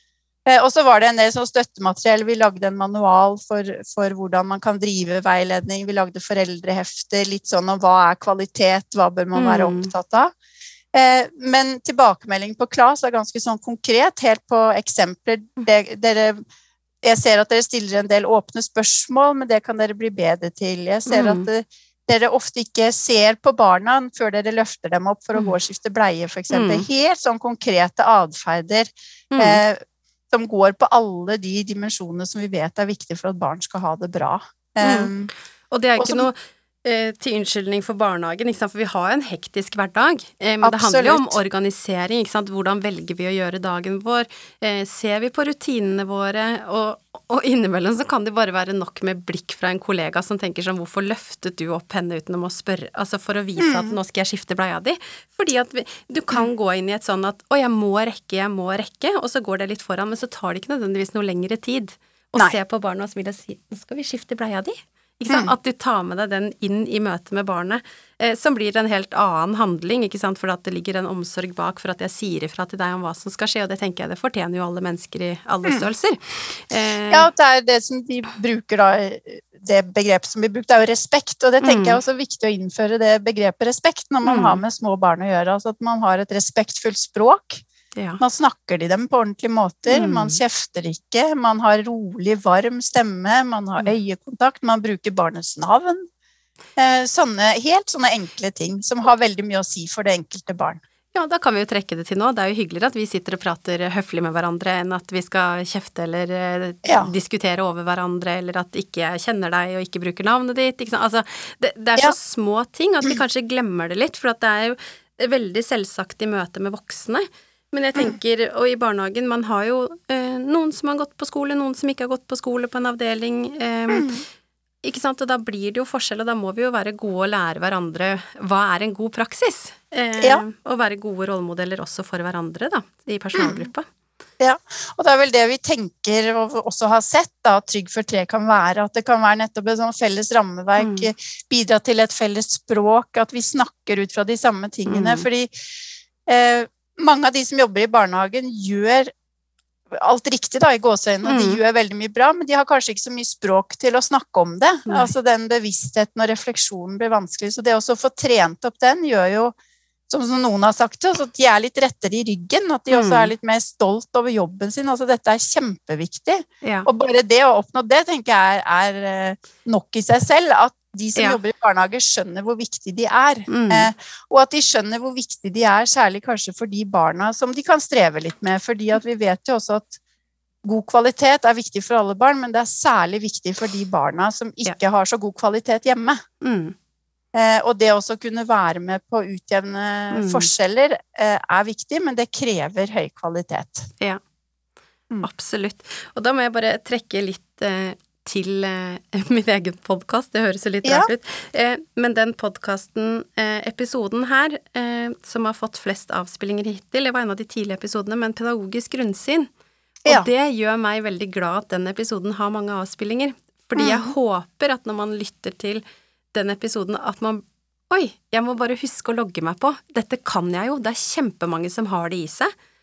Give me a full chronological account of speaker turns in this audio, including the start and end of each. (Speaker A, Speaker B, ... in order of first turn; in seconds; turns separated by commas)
Speaker A: 0.5-10.3, Speaker B: 9.3-9.9, Speaker A: 10.9-16.4, Speaker A: 17.0-35.3, Speaker B: 21.1-21.5, Speaker B: 26.5-26.9, Speaker B: 29.3-29.6, Speaker B: 34.8-35.1, Speaker B: 35.7-77.3, Speaker A: 36.0-36.3, Speaker A: 40.6-41.4, Speaker A: 53.6-54.0, Speaker A: 77.1-87.6, Speaker B: 81.6-82.0, Speaker B: 84.2-84.6, Speaker B: 88.0-88.2, Speaker A: 88.2-96.1, Speaker B: 89.9-90.4, Speaker A: 96.8-100.8, Speaker B: 101.1-124.2, Speaker A: 106.8-107.1, Speaker A: 123.9-124.2, Speaker B: 124.8-133.9, Speaker A: 133.3-133.7, Speaker A: 134.4-145.5, Speaker B: 140.8-141.1, Speaker B: 144.9-145.3, Speaker A: 146.3-149.1, Speaker A: 149.9-159.6, Speaker B: 151.3-151.6, Speaker B: 154.9-155.1, Speaker A: 160.1-180.0, Speaker B: 162.9-163.3, Speaker B: 166.6-166.9, Speaker B: 173.5-173.9, Speaker A: 180.6-186.2, Speaker B: 186.4-186.7, Speaker A: 187.3-193.9, Speaker B: 190.1-190.5, Speaker B: 195.2-209.5, Speaker A: 200.8-201.1, Speaker B: 210.1-215.8, Speaker A: 213.8-214.1, Speaker B: 216.3-222.5